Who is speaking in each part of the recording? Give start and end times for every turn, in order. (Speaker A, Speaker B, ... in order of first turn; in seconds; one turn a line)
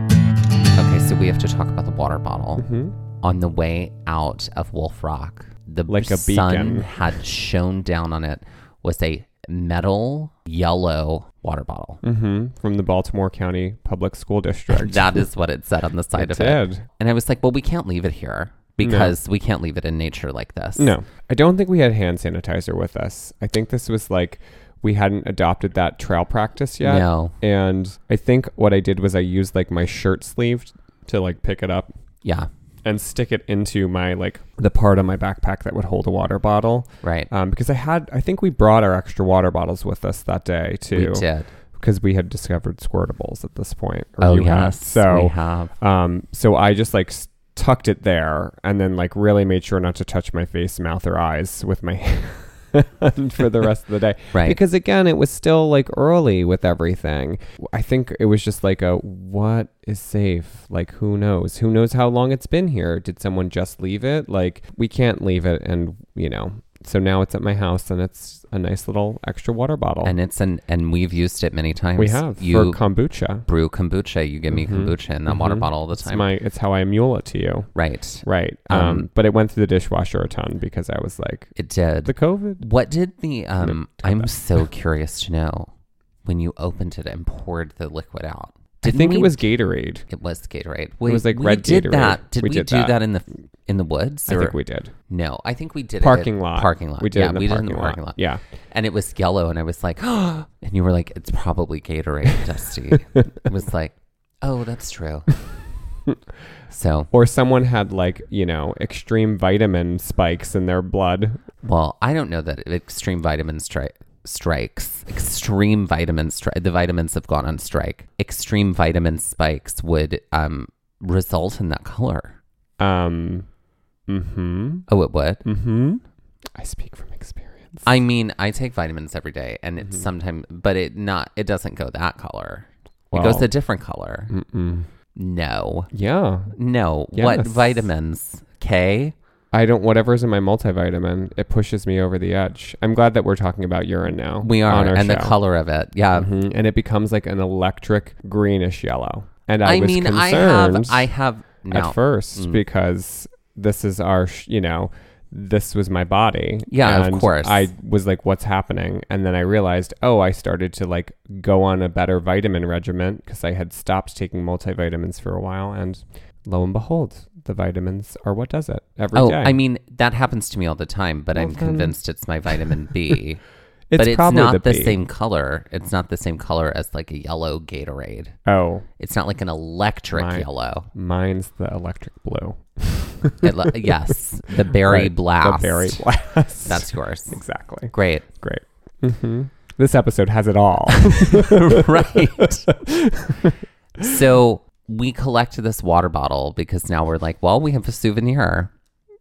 Speaker A: 0.8-12.0
Speaker B: 2.6-2.9
Speaker B: 5.9-6.9
Speaker B: 12.0-15.3
Speaker A: 14.7-20.9
Speaker B: 16.1-16.8
Speaker B: 18.8-19.1
Speaker B: 20.8-31.9
Speaker A: 26.8-27.3
Speaker B: 32.8-70.1
Speaker A: 37.0-37.3
Speaker A: 40.9-41.5
Speaker A: 44.2-45.7
Speaker A: 54.3-54.6
Speaker A: 70.0-72.8
Speaker B: 72.0-73.5
Speaker A: 73.3-76.2
Speaker B: 74.5-81.5
Speaker A: 77.7-79.0
Speaker A: 81.5-85.7
Speaker B: 82.0-82.6
Speaker B: 83.6-84.3
Speaker A: 86.2-89.4
Speaker B: 88.8-90.1
Speaker A: 90.1-94.6
Speaker B: 91.0-93.0
Speaker B: 94.3-94.9
Speaker A: 95.1-105.4
Speaker B: 96.0-98.4
Speaker A: 106.7-107.1
Speaker B: 107.1-111.4
Speaker A: 111.6-122.3
Speaker B: 122.8-123.5
Speaker B: 124.1-124.9
Speaker A: 124.9-125.4
Speaker B: 125.4-126.0
Speaker B: 126.5-127.8
Speaker A: 127.8-134.3
Speaker B: 133.1-133.5
Speaker B: 134.3-134.9
Speaker A: 135.1-135.9
Speaker B: 135.9-136.6
Speaker A: 136.5-139.1
Speaker B: 137.1-137.9
Speaker B: 139.5-145.3
Speaker A: 144.4-146.3
Speaker B: 146.1-151.1
Speaker A: 149.6-152.6
Speaker B: 151.7-169.6
Speaker A: 156.7-157.7
Speaker A: 169.1-173.4
Speaker B: 171.3-171.9
Speaker B: 173.9-175.0
Speaker A: 173.9-178.4
Speaker B: 178.4-178.8
Speaker A: 179.0-180.9
Speaker B: 180.1-193.5
Speaker A: 183.4-188.3
Speaker A: 191.1-192.7
Speaker A: 194.0-198.7